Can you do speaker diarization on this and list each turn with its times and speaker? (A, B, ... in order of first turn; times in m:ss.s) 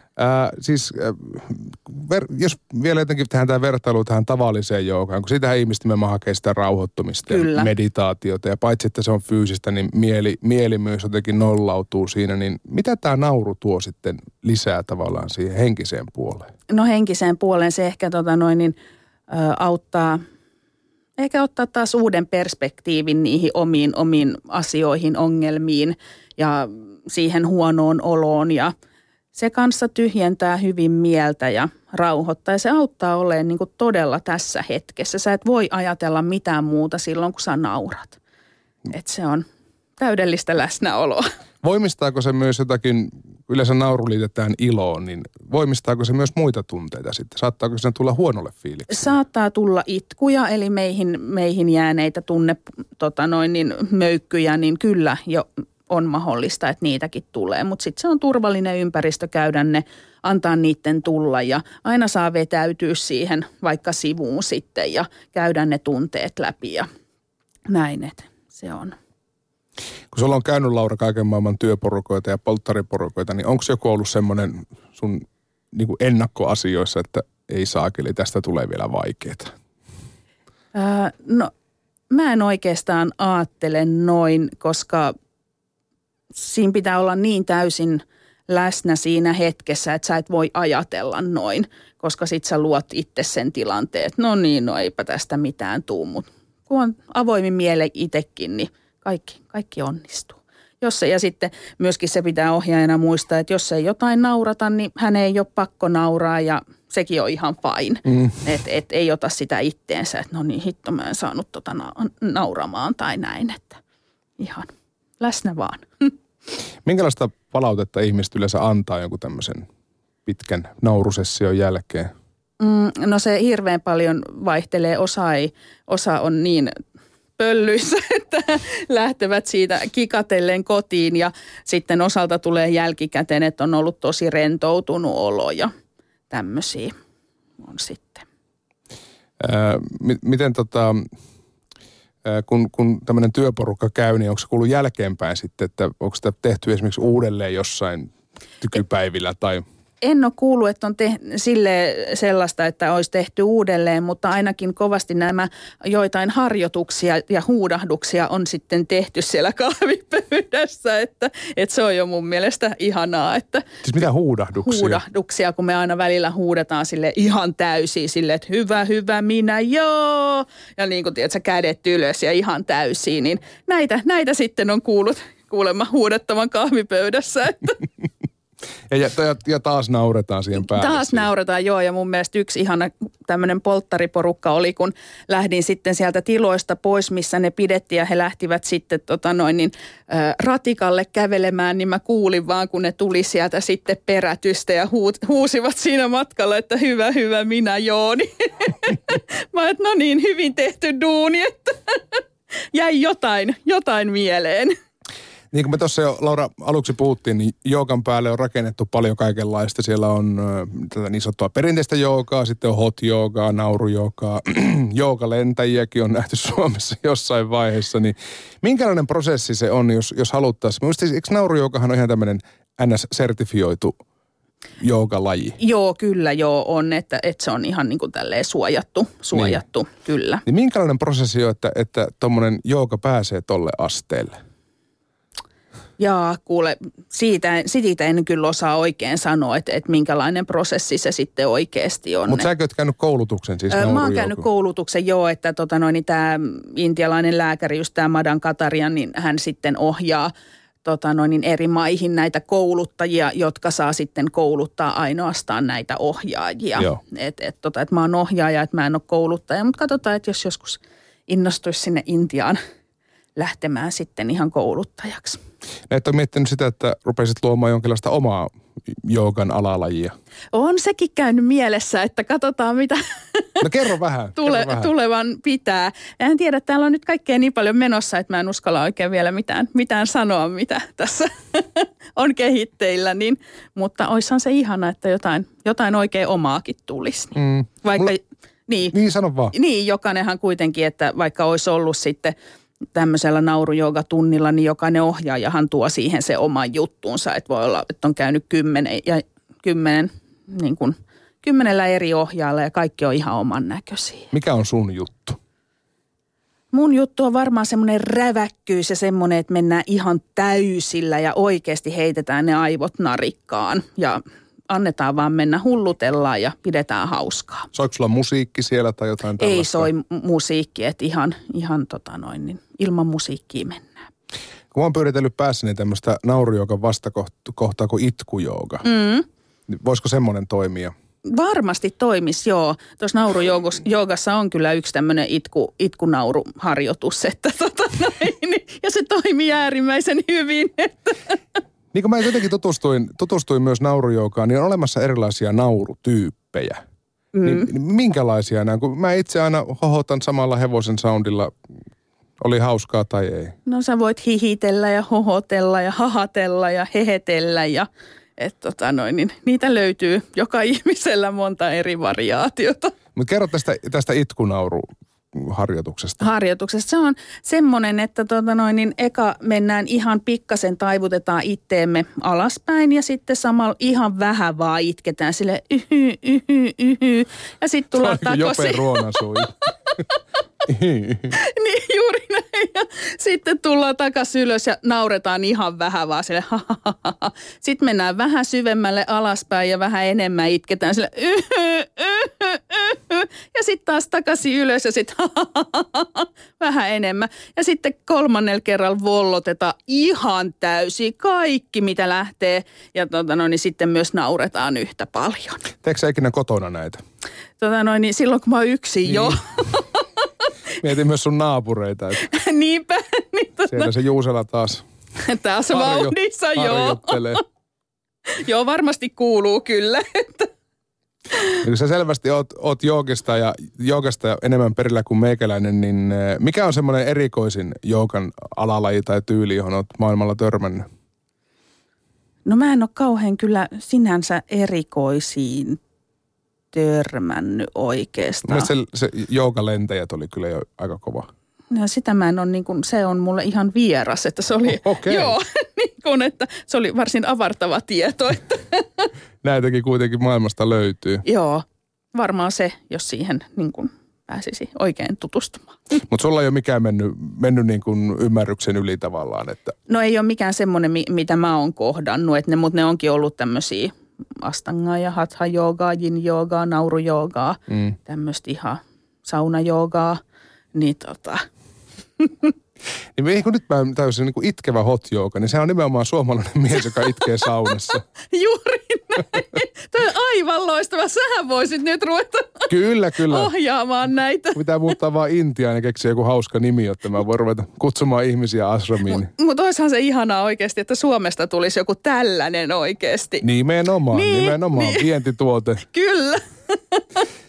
0:00.2-0:16.5 A
0:07.3-0:07.7 B
0:16.7-0:18.8 B
0:19.3-0:20.2 B
0:21.2-0:28.7 B
0:29.3-0:38.2 B
0:38.9-0:39.4 B
0:40.0-0:41.2 B
0:41.6-0:49.1 A
0:48.9-1:06.9 B
1:07.7-1:08.9 B
1:10.1-1:19.5 A
1:20.7-1:21.5 B
1:22.1-1:25.1 B
1:26.3-1:53.8 B
1:54.4-1:56.1 B
1:56.8-1:59.7 A
2:00.2-2:02.1 A
2:02.6-2:06.7 B
2:07.4-2:15.7 B
2:16.3-2:16.9 B
2:17.6-2:18.2 B
2:19.4-2:21.0 A
2:22.2-2:29.6 A
2:30.0-2:43.6 B
2:43.8-2:45.0 A
2:44.6-2:57.8 B
2:58.9-3:01.3 A
3:00.5-3:22.2 B
3:22.7-3:24.7 B
3:25.5-3:44.0 A
3:44.8-3:45.6 A
3:45.6-3:50.4 B
3:49.3-3:49.6 A
3:50.4-3:54.4 A
3:56.0-4:02.5 B
4:02.3-4:04.4 A
4:03.7-4:10.3 B
4:10.8-4:22.6 B
4:23.4-4:25.4 B
4:25.9-4:30.1 A
4:30.5-4:33.6 B
4:33.6-4:34.9 A
4:34.4-4:48.9 B
4:47.4-4:48.1 A
4:48.9-4:49.5 A
4:49.5-4:52.3 B
4:52.9-5:04.3 B
5:04.3-5:05.4 A
5:06.7-5:17.7 B
5:17.7-5:19.9 A
5:19.4-5:24.0 B
5:24.7-5:28.9 A
5:28.8-5:29.2 B
5:29.7-5:30.9 A
5:31.2-5:41.4 B
5:41.9-5:46.8 A
5:47.3-5:47.7 B
5:47.4-5:51.5 A
5:52.4-5:53.6 A
5:53.6-6:02.9 B
6:03.1-6:06.2 A
6:06.2-6:19.4 B
6:17.9-6:19.6 A
6:20.7-6:21.3 A
6:21.3-6:45.6 B
6:45.8-6:47.0 A
6:47.6-6:50.0 B
6:50.8-6:52.2 A
6:52.2-6:53.9 B
6:53.7-6:54.8 A
6:55.2-6:57.4 B
6:55.7-6:57.4 A
6:58.3-7:00.5 B
7:01.6-7:10.8 A
7:12.4-7:15.8 B
7:16.7-7:18.7 B
7:18.4-7:21.3 A
7:21.7-7:29.1 B
7:24.7-7:25.4 A
7:29.4-7:31.2 A
7:31.2-7:35.8 B
7:36.1-7:39.8 A
7:39.9-7:50.2 B
7:50.7-7:51.4 B
7:52.2-7:52.5 B
7:53.2-7:58.0 A
7:58.3-8:02.7 B
8:02.7-8:03.5 A
8:03.2-8:04.6 B
8:04.5-8:09.3 A
8:09.0-8:13.4 B
8:13.4-8:15.8 A
8:14.1-8:15.1 B
8:15.8-8:17.0 B